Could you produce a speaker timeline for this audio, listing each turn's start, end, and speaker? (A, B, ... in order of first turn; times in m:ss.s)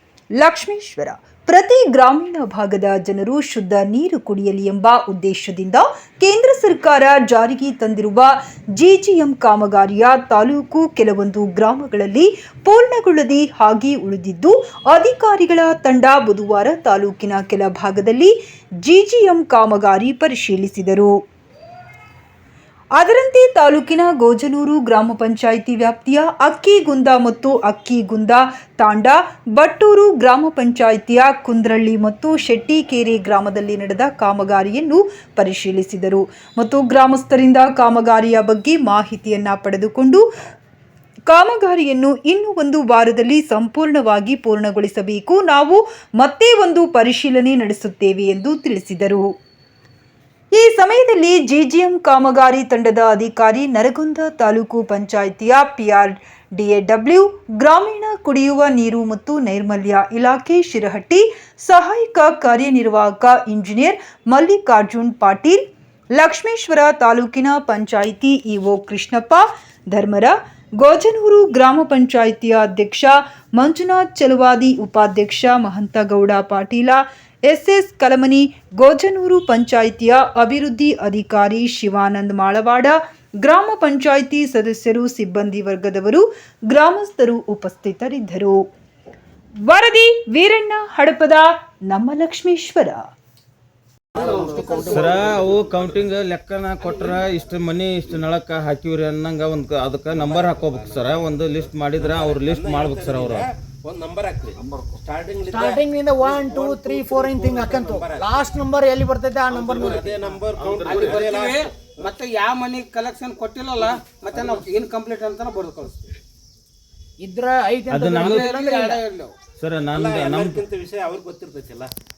0:00.4-0:21.1 A
0:23.0-0:40.2 A
0:41.3-0:49.3 A
0:50.5-1:05.6 A
1:06.2-1:28.6 A
1:29.6-1:33.1 A
1:34.1-1:35.4 B
1:34.1-1:35.5 C
1:34.8-1:43.5 D
1:36.8-1:37.2 B
1:40.1-1:41.2 C
1:41.9-1:48.6 C
1:45.5-1:50.3 E
1:49.5-1:52.1 C
1:50.6-1:51.2 D
1:50.8-1:56.1 B
1:53.8-1:54.7 C
1:57.2-1:59.0 E
1:57.9-1:58.5 D
1:58.2-1:59.4 B
1:59.6-2:00.6 D
1:59.9-2:01.9 C